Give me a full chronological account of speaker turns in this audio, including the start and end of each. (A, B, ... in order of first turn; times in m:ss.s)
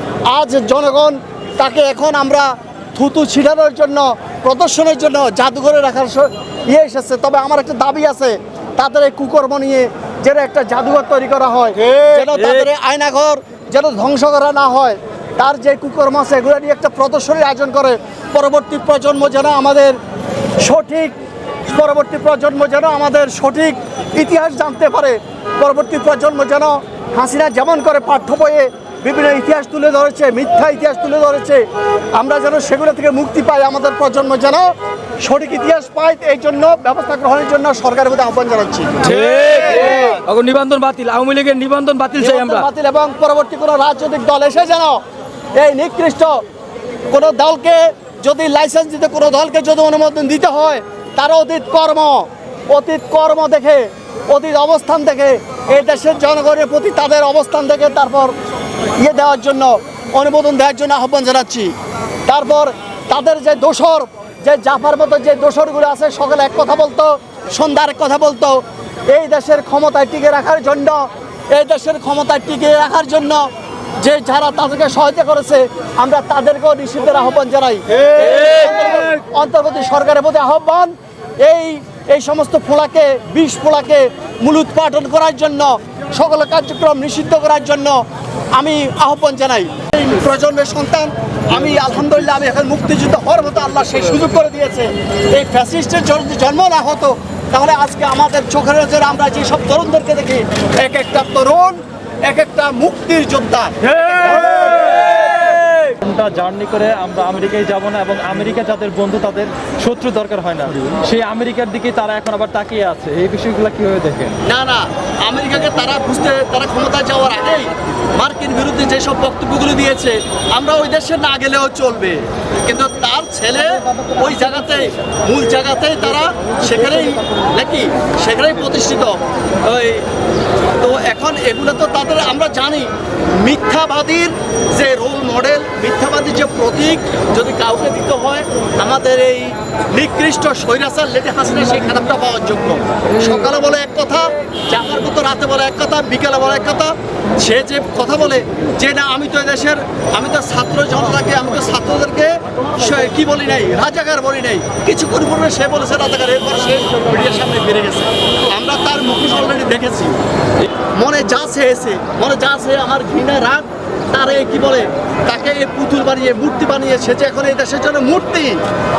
0:00.3-0:20.0 A
0:11.9-0:12.6 B
0:20.6-0:21.1 A
0:21.7-0:39.2 A
0:39.0-0:42.7 B
0:42.2-0:45.0 A
0:45.6-0:46.4 A
0:47.1-0:58.3 A
0:59.0-1:01.7 A
1:02.3-1:13.5 A
1:14.0-1:28.0 A
1:28.5-1:43.8 A
1:44.2-1:54.4 C
1:54.4-2:10.0 A
2:10.8-2:40.2 A
2:41.0-2:48.6 A